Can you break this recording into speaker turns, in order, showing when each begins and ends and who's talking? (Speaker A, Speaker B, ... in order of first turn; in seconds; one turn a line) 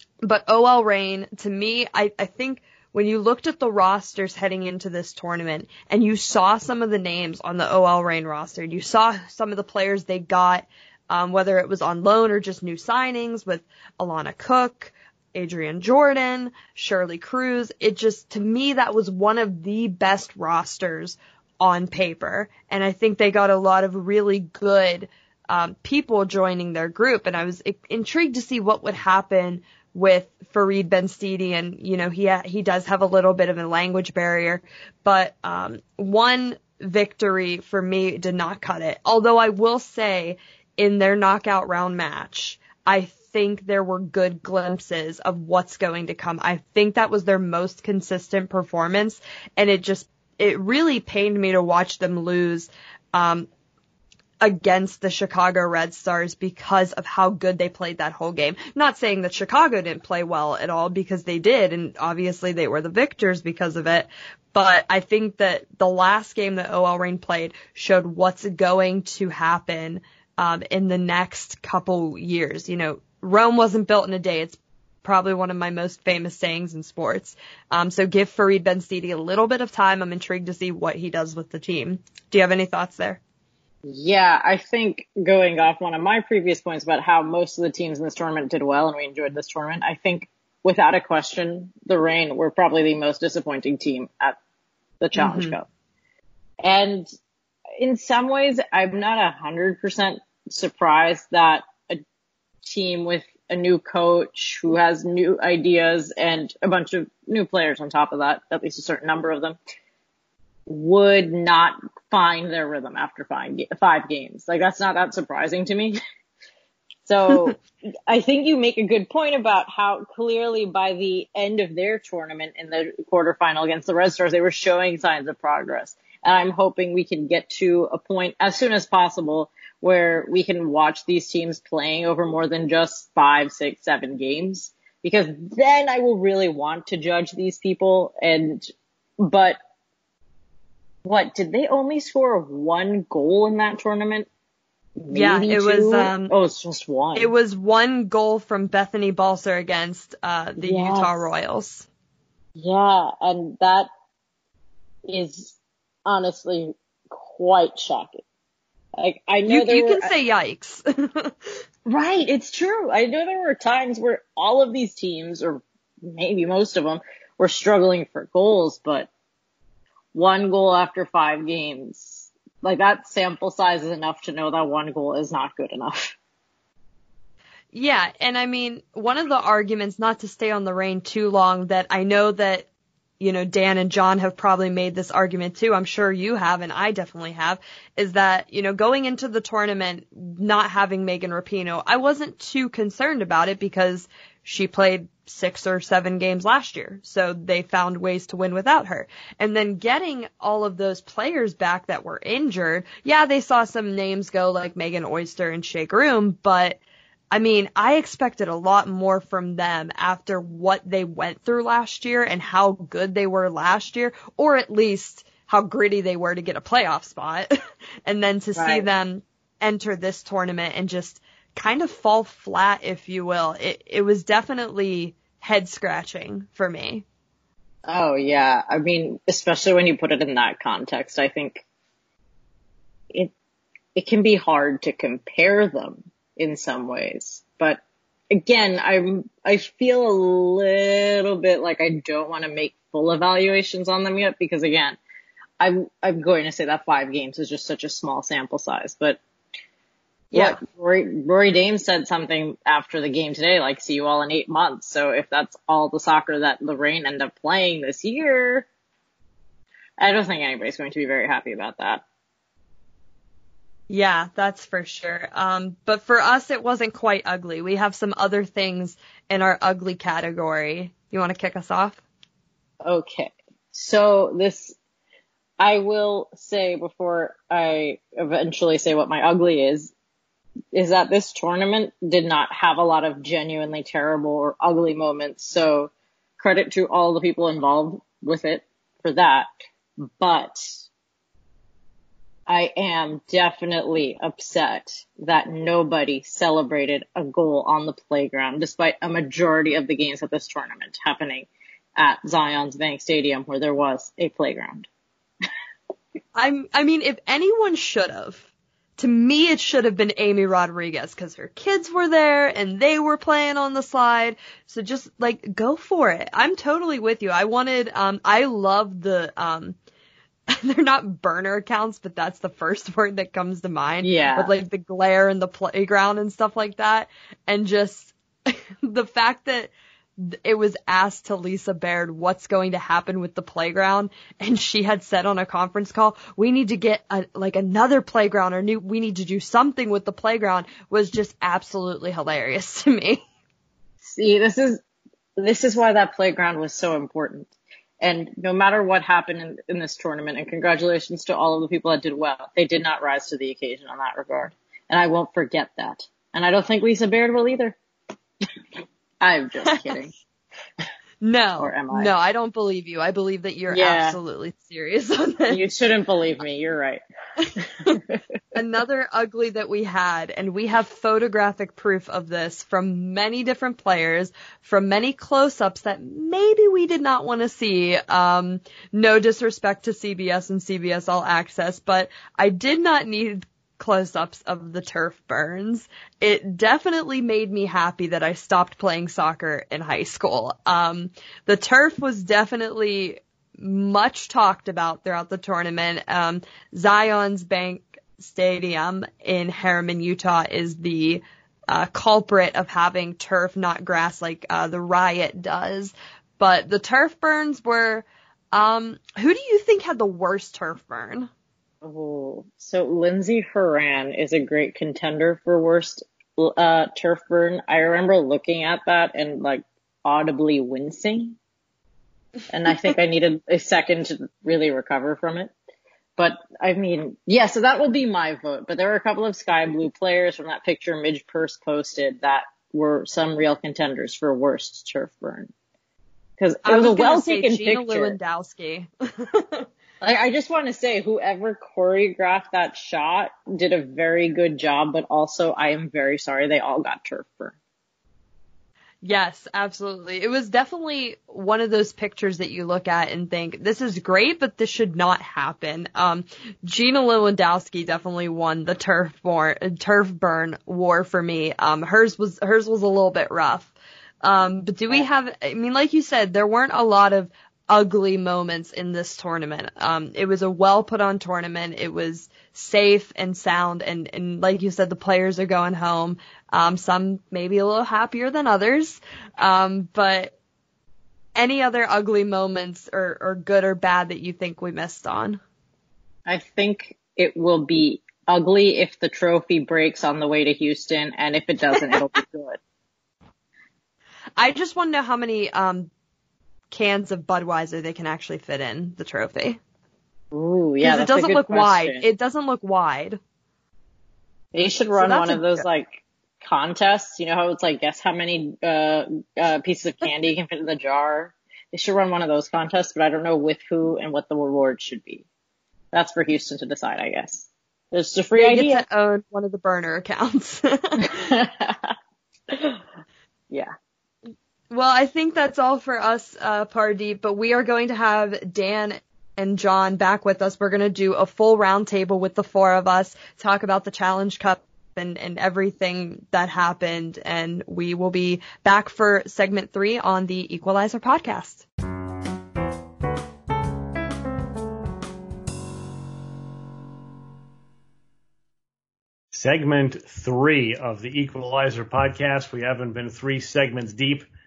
Speaker A: 0.2-53.5
Speaker A: 54.4-83.2
Speaker B: 83.8-94.4
Speaker B: 95.0-95.7
Speaker A: 95.2-95.5
Speaker B: 96.6-97.1
Speaker B: 97.8-102.0
Speaker B: 102.6-109.6
Speaker B: 110.7-116.0
Speaker B: 117.0-139.6
Speaker B: 141.0-144.3
Speaker B: 145.0-147.3
Speaker A: 145.1-146.3
Speaker A: 147.2-151.8
Speaker B: 150.6-151.3
Speaker B: 152.6-153.9
Speaker B: 155.1-158.2
Speaker B: 159.0-160.1
Speaker A: 159.4-161.3
Speaker B: 161.9-169.1
Speaker B: 170.1-176.1
Speaker A: 177.7-182.7
Speaker A: 183.2-206.8
Speaker A: 207.3-217.5
Speaker A: 218.1-227.0
Speaker B: 218.6-218.9
Speaker B: 227.9-231.6
Speaker B: 233.9-245.0
Speaker B: 245.6-249.2
Speaker B: 250.3-258.7
Speaker A: 250.3-250.6
Speaker B: 260.0-262.0
Speaker A: 263.9-272.0
Speaker B: 272.8-274.7
Speaker B: 275.6-279.9
Speaker B: 280.7-289.5
Speaker B: 290.0-290.8
Speaker B: 292.5-304.9
Speaker A: 306.4-308.4
Speaker A: 309.0-319.8
Speaker A: 320.5-343.2
Speaker B: 324.0-324.5
Speaker B: 344.0-344.8
Speaker B: 345.4-357.8
Speaker B: 359.2-360.1
Speaker A: 359.7-360.0
Speaker A: 361.2-365.6
Speaker B: 361.6-362.1
Speaker B: 363.7-364.2
Speaker B: 365.5-367.0
Speaker A: 367.4-367.9
Speaker B: 367.6-368.2
Speaker A: 368.5-411.3
Speaker B: 411.8-421.4
Speaker B: 422.5-425.5
Speaker B: 426.2-435.5
Speaker B: 436.4-438.1
Speaker A: 436.6-439.6
Speaker B: 440.0-447.6
Speaker A: 449.0-480.3
Speaker A: 481.4-485.4
Speaker B: 486.3-492.6
Speaker A: 494.4-495.9
Speaker A: 496.7-499.6
Speaker B: 500.3-502.1
Speaker A: 500.8-503.2
Speaker B: 504.5-515.2
Speaker A: 505.0-505.6
Speaker B: 515.9-518.8
Speaker A: 518.4-521.1
Speaker B: 521.0-521.9
Speaker B: 522.5-522.8
Speaker A: 524.7-541.6
Speaker C: 549.3-554.3